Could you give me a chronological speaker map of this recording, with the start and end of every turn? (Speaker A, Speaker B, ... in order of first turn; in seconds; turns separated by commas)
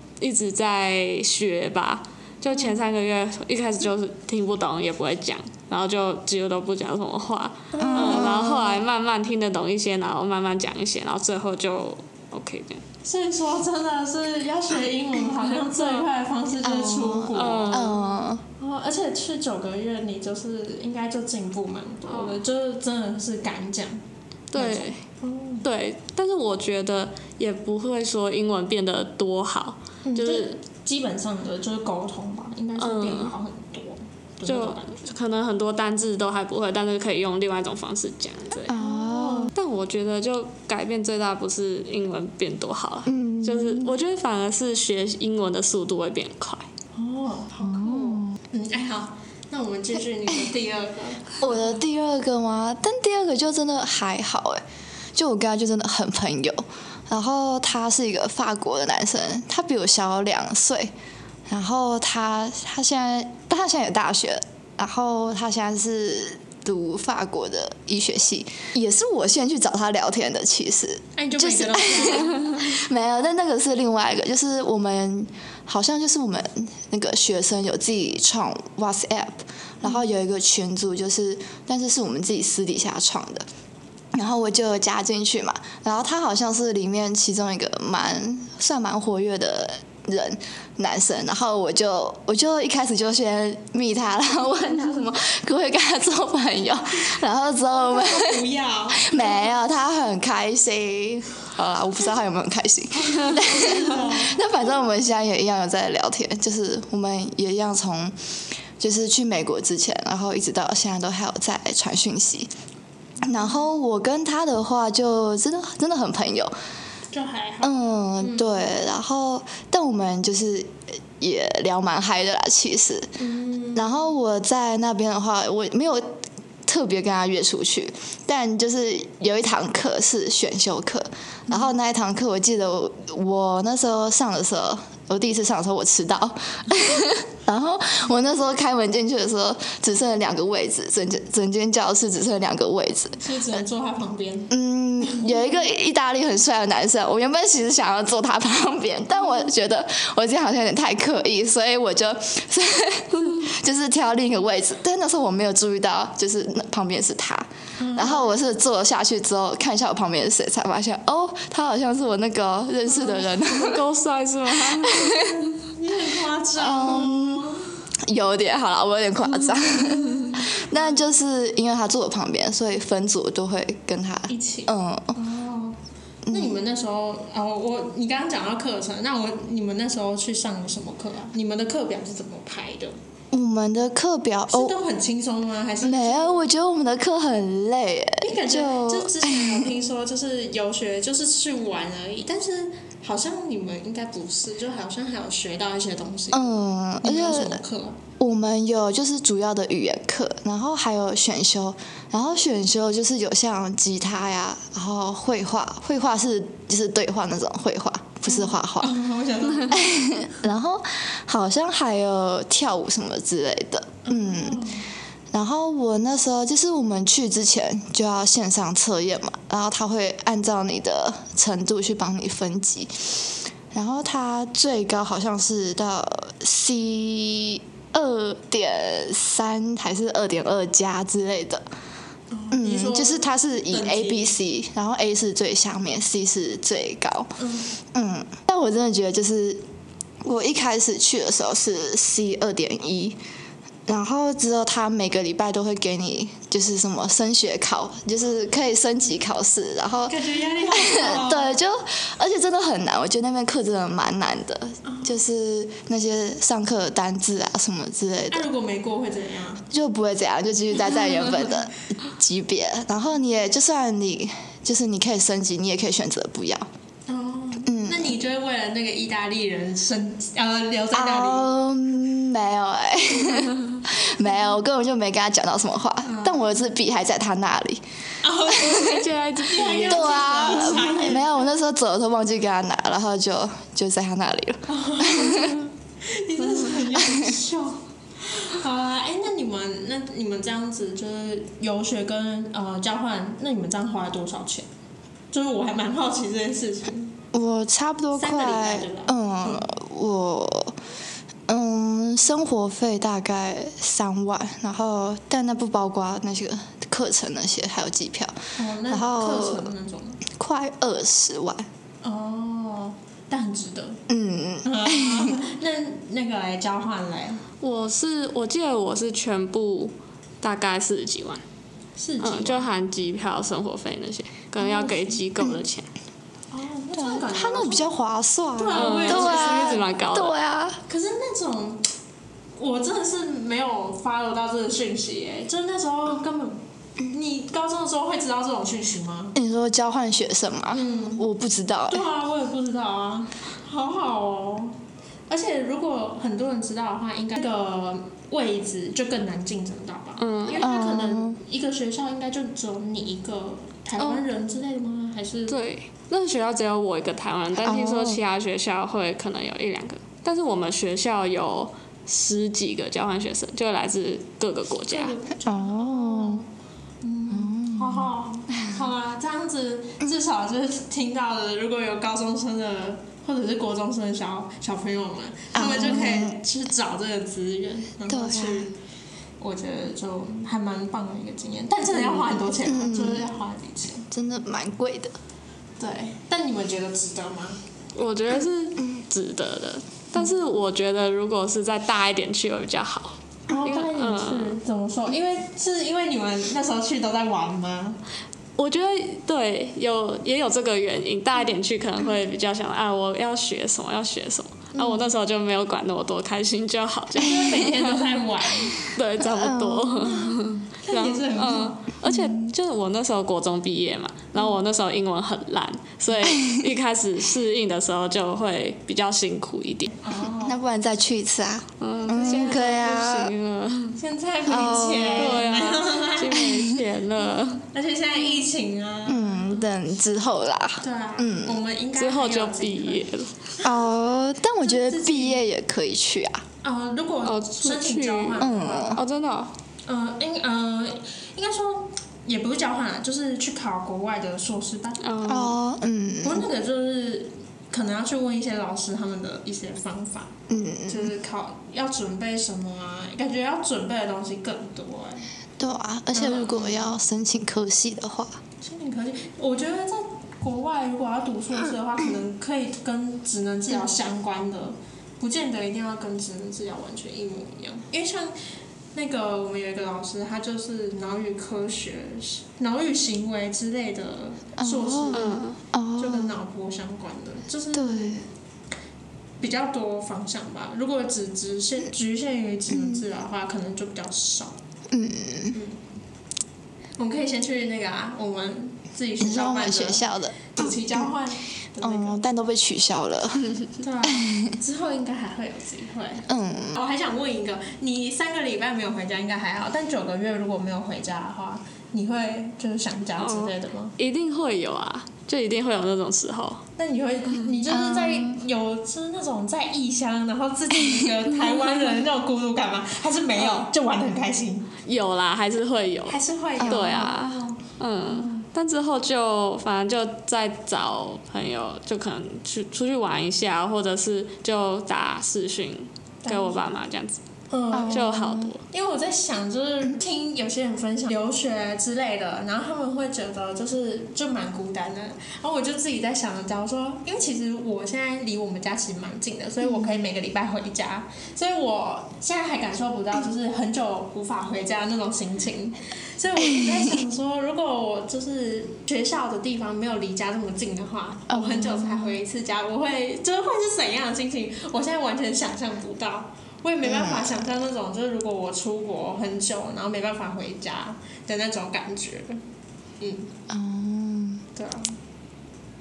Speaker A: 0.2-12.8, Speaker B: 2.5-2.8, Speaker B: 7.7-8.6, Speaker C: 7.8-8.8, Speaker B: 13.0-17.9, Speaker A: 15.7-16.1, Speaker C: 16.6-18.4, Speaker A: 17.3-18.0, Speaker B: 18.6-24.0, Speaker A: 22.1-22.4, Speaker A: 24.5-25.0, Speaker B: 24.6-25.6, Speaker A: 25.6-30.5, Speaker B: 30.1-35.1, Speaker A: 32.8-33.4, Speaker A: 34.5-38.7, Speaker C: 38.7-39.5, Speaker B: 38.8-39.5, Speaker A: 39.5-46.7, Speaker C: 43.1-44.0, Speaker B: 47.0-51.7, Speaker C: 47.6-48.3, Speaker C: 51.4-54.6, Speaker C: 55.1-60.9, Speaker C: 61.5-83.5, Speaker B: 71.2-72.7, Speaker C: 84.1-108.2, Speaker B: 97.7-99.5, Speaker B: 103.0-104.5, Speaker A: 103.1-103.5, Speaker C: 108.8-112.5, Speaker C: 113.2-116.5, Speaker B: 117.1-118.5, Speaker C: 117.6-123.1, Speaker B: 123.2-124.0, Speaker C: 123.8-143.2, Speaker B: 143.2-145.7, Speaker C: 144.5-163.8, Speaker B: 157.8-158.3, Speaker A: 163.5-165.2, Speaker C: 164.7-165.4, Speaker B: 165.1-167.8, Speaker C: 166.6-167.5, Speaker C: 168.1-175.2, Speaker A: 169.5-170.0, Speaker B: 169.8-171.0, Speaker B: 174.3-175.8, Speaker C: 176.3-176.6, Speaker B: 176.3-183.0, Speaker C: 183.3-184.8, Speaker B: 184.5-186.5, Speaker C: 185.8-189.7, Speaker B: 188.2-198.0, Speaker C: 196.3-197.6, Speaker C: 198.2-209.0, Speaker B: 208.3-210.0, Speaker C: 209.5-214.6, Speaker B: 214.1-214.9, Speaker C: 215.3-231.7, Speaker B: 232.3-234.4, Speaker C: 232.5-237.3, Speaker B: 237.4-237.8, Speaker C: 237.9-239.6, Speaker C: 240.2-243.2, Speaker C: 243.9-258.5, Speaker B: 250.1-251.6, Speaker B: 254.8-255.2, Speaker B: 258.3-259.6, Speaker C: 259.7-266.7, Speaker B: 260.9-261.5, Speaker B: 267.1-271.6, Speaker C: 267.7-268.1, Speaker C: 270.9-277.8, Speaker B: 276.1-276.6, Speaker B: 278.2-281.4, Speaker C: 278.5-278.8, Speaker A: 278.6-280.9, Speaker C: 279.8-285.6, Speaker B: 284.7-294.7, Speaker C: 287.0-287.3, Speaker B: 295.3-297.1, Speaker C: 297.3-300.8, Speaker B: 298.1-299.7, Speaker C: 301.5-308.4, Speaker B: 308.6-310.2, Speaker C: 308.9-309.7, Speaker C: 310.3-311.7, Speaker B: 312.0-314.0, Speaker C: 314.1-315.4, Speaker B: 314.6-317.4, Speaker A: 317.6-321.4, Speaker B: 322.0-322.7, Speaker A: 322.2-325.9, Speaker B: 324.6-325.2, Speaker B: 326.5-327.9, Speaker C: 326.9-330.8, Speaker B: 328.6-329.9, Speaker A: 328.7-330.4, Speaker B: 330.9-331.8, Speaker B: 332.6-339.4, Speaker C: 339.4-342.1, Speaker B: 340.7-341.3, Speaker B: 341.9-344.8, Speaker B: 345.3-355.6, Speaker A: 350.2-350.7, Speaker C: 350.6-351.4, Speaker A: 354.0-354.2, Speaker A: 355.5-365.2, Speaker C: 357.6-358.2, Speaker B: 364.9-366.5, Speaker C: 365.5-366.4, Speaker B: 367.0-378.7, Speaker C: 367.3-368.8, Speaker C: 375.5-376.4, Speaker C: 378.1-378.7, Speaker B: 379.4-384.1, Speaker C: 382.7-383.3, Speaker C: 384.1-385.1, Speaker B: 385.8-387.6, Speaker A: 387.9-394.6, Speaker B: 393.5-398.0, Speaker A: 398.6-408.2, Speaker B: 404.7-405.1, Speaker B: 407.2-408.8, Speaker A: 408.7-420.0, Speaker C: 409.2-410.1, Speaker B: 410.1-411.9, Speaker C: 412.1-412.5, Speaker C: 416.2-416.7, Speaker B: 420.0-420.6, Speaker C: 420.4-423.3, Speaker A: 421.8-424.0, Speaker B: 424.0-426.6, Speaker C: 424.5-425.4, Speaker A: 425.2-427.7, Speaker B: 427.7-429.6, Speaker C: 429.1-431.6, Speaker B: 430.8-433.1, Speaker A: 432.0-433.4, Speaker C: 433.6-436.4, Speaker B: 434.6-435.4, Speaker B: 436.6-439.0, Speaker A: 437.2-439.5, Speaker C: 438.4-439.0, Speaker B: 439.9-445.5, Speaker A: 445.0-445.6, Speaker C: 445.3-446.5, Speaker B: 446.2-450.3, Speaker C: 450.5-451.1, Speaker B: 450.9-455.3, Speaker C: 455.6-458.4, Speaker B: 456.1-457.0, Speaker B: 458.6-468.4, Speaker B: 468.9-475.5, Speaker C: 474.6-476.4, Speaker A: 475.1-475.6, Speaker B: 476.0-478.3, Speaker C: 477.7-478.2, Speaker B: 479.4-484.6, Speaker C: 482.7-483.0, Speaker C: 484.9-485.6, Speaker B: 485.5-485.8, Speaker B: 487.0-492.2, Speaker C: 489.2-491.0, Speaker C: 491.8-494.6, Speaker B: 493.8-503.9, Speaker C: 496.3-496.8, Speaker A: 503.2-506.6, Speaker B: 506.8-514.7, Speaker C: 507.7-508.4, Speaker A: 513.4-513.7, Speaker A: 514.9-527.2, Speaker B: 516.1-518.5, Speaker C: 516.6-517.0, Speaker B: 526.2-526.7, Speaker B: 527.5-562.4, Speaker C: 527.7-528.5, Speaker A: 527.8-528.6, Speaker C: 539.6-540.0, Speaker C: 546.4-547.0, Speaker C: 551.3-552.2, Speaker C: 556.8-557.4, Speaker B: 563.0-563.3, Speaker C: 563.5-564.5, Speaker B: 564.5-565.0